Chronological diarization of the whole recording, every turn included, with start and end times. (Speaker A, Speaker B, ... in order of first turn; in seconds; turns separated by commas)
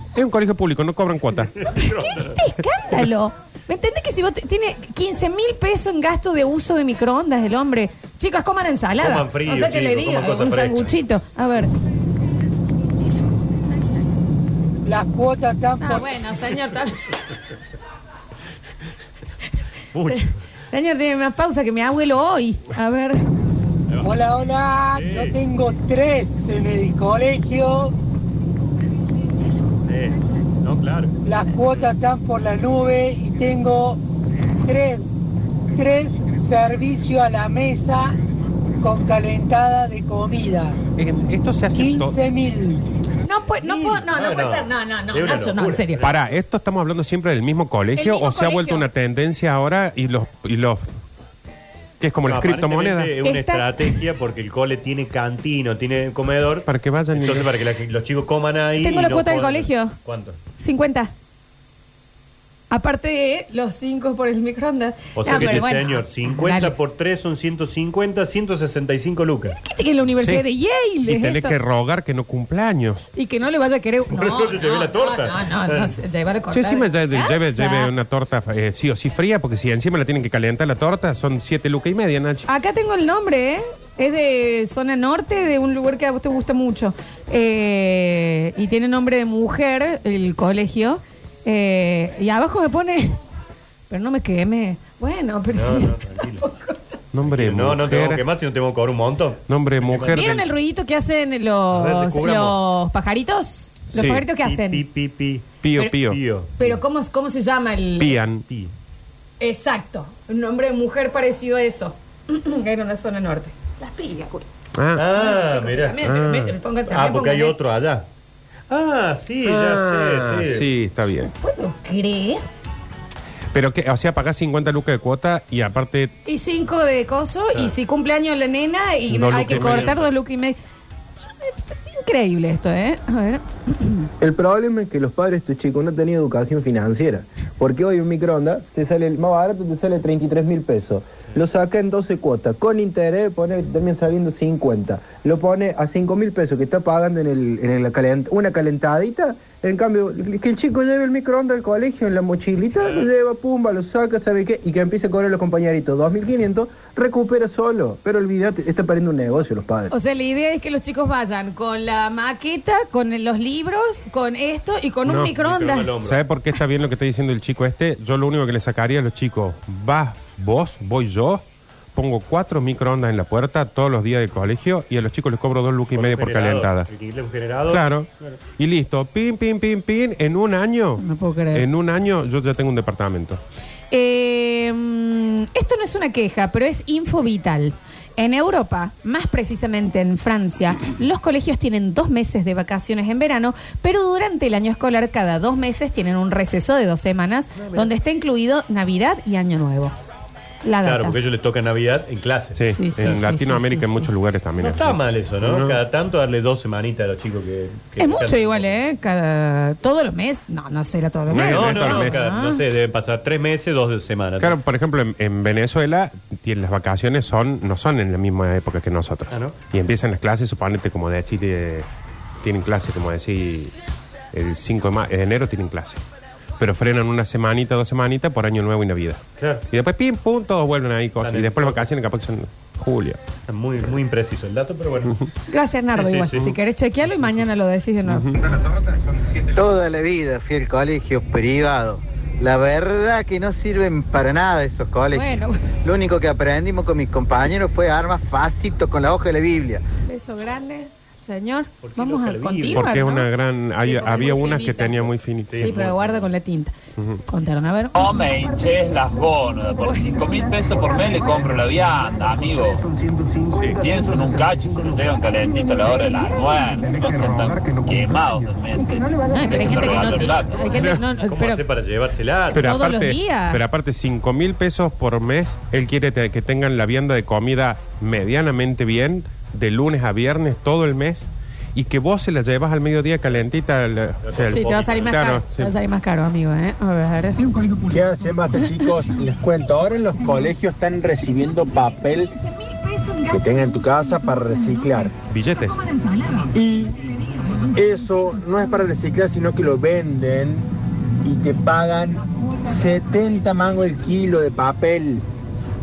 Speaker A: 0.1-1.5, Speaker B: 1.6-2.3, Speaker C: 1.8-11.7, Speaker B: 9.0-10.9, Speaker D: 14.8-16.4, Speaker C: 15.8-17.1, Speaker B: 19.9-20.3, Speaker C: 20.1-23.2, Speaker D: 24.0-27.9, Speaker B: 24.9-25.4, Speaker B: 29.9-31.2, Speaker D: 31.2-34.0, Speaker D: 34.6-35.0, Speaker D: 35.7-38.2, Speaker D: 38.8-40.8, Speaker A: 41.0-42.2, Speaker D: 41.7-42.8, Speaker C: 43.2-46.0, Speaker B: 43.5-46.2, Speaker A: 46.0-50.8, Speaker C: 47.9-48.9, Speaker A: 52.0-53.1, Speaker B: 52.2-60.4, Speaker C: 53.2-54.0, Speaker A: 56.6-57.5, Speaker C: 58.8-59.9, Speaker C: 60.6-61.1, Speaker C: 62.7-66.7, Speaker B: 65.2-69.6, Speaker C: 69.5-71.5, Speaker A: 70.2-70.4, Speaker A: 71.0-73.1, Speaker C: 73.1-77.9, Speaker B: 74.1-76.0, Speaker A: 76.5-82.5, Speaker C: 82.5-93.2, Speaker C: 93.9-96.8, Speaker B: 95.5-96.4, Speaker A: 97.1-98.2, Speaker B: 97.2-100.3, Speaker A: 99.5-100.5, Speaker C: 100.1-104.8, Speaker B: 101.7-102.6, Speaker A: 103.9-104.2, Speaker B: 104.2-106.8, Speaker A: 105.6-106.2, Speaker C: 106.6-108.2, Speaker A: 108.0-108.4, Speaker C: 109.4-114.4, Speaker A: 114.8-115.1, Speaker B: 115.0-116.1, Speaker C: 115.1-117.5, Speaker A: 116.0-116.5, Speaker B: 116.9-118.0, Speaker B: 118.7-120.7, Speaker A: 119.4-121.3, Speaker C: 121.4-122.4, Speaker A: 123.5-126.1, Speaker C: 126.2-130.6, Speaker A: 129.1-129.9, Speaker B: 129.4-130.1, Speaker C: 131.2-134.1, Speaker E: 134.2-159.9, Speaker B: 152.7-153.1, Speaker C: 159.9-165.9, Speaker A: 165.1-165.3, Speaker B: 165.3-166.2, Speaker A: 166.0-176.9, Speaker B: 175.9-178.3, Speaker A: 177.7-183.4, Speaker C: 181.0-181.7, Speaker C: 183.9-199.9, Speaker B: 197.6-197.9, Speaker C: 200.6-201.2, Speaker B: 200.8-203.2, Speaker A: 202.5-205.8, Speaker C: 202.7-204.1, Speaker B: 204.6-208.8, Speaker C: 208.0-212.6, Speaker A: 211.3-212.2, Speaker B: 211.3-214.6, Speaker A: 214.4-221.9, Speaker A: 222.4-223.7, Speaker A: 224.3-226.0, Speaker A: 226.6-233.2, Speaker B: 229.4-229.6, Speaker B: 231.2-231.8, Speaker B: 233.5-235.3, Speaker C: 235.5-238.3, Speaker B: 235.9-236.6, Speaker A: 238.1-238.3, Speaker F: 238.3-239.6, Speaker G: 239.6-249.8, Speaker C: 245.1-245.6, Speaker C: 250.1-253.3, Speaker B: 251.8-252.8, Speaker A: 252.7-255.7, Speaker C: 253.8-255.0, Speaker B: 255.5-256.3, Speaker C: 255.6-256.7, Speaker C: 257.2-258.0, Speaker H: 257.9-262.8, Speaker H: 263.7-270.6, Speaker C: 269.3-271.6, Speaker A: 270.7-271.0, Speaker B: 271.3-272.7, Speaker C: 272.5-273.6, Speaker A: 272.5-285.7, Speaker B: 284.2-285.2, Speaker C: 284.5-287.5, Speaker F: 287.8-292.3, Speaker C: 292.5-293.3, Speaker F: 293.2-295.2, Speaker A: 295.3-295.8, Speaker C: 295.5-296.5, Speaker F: 296.5-296.9, Speaker F: 297.6-300.7, Speaker F: 301.2-305.2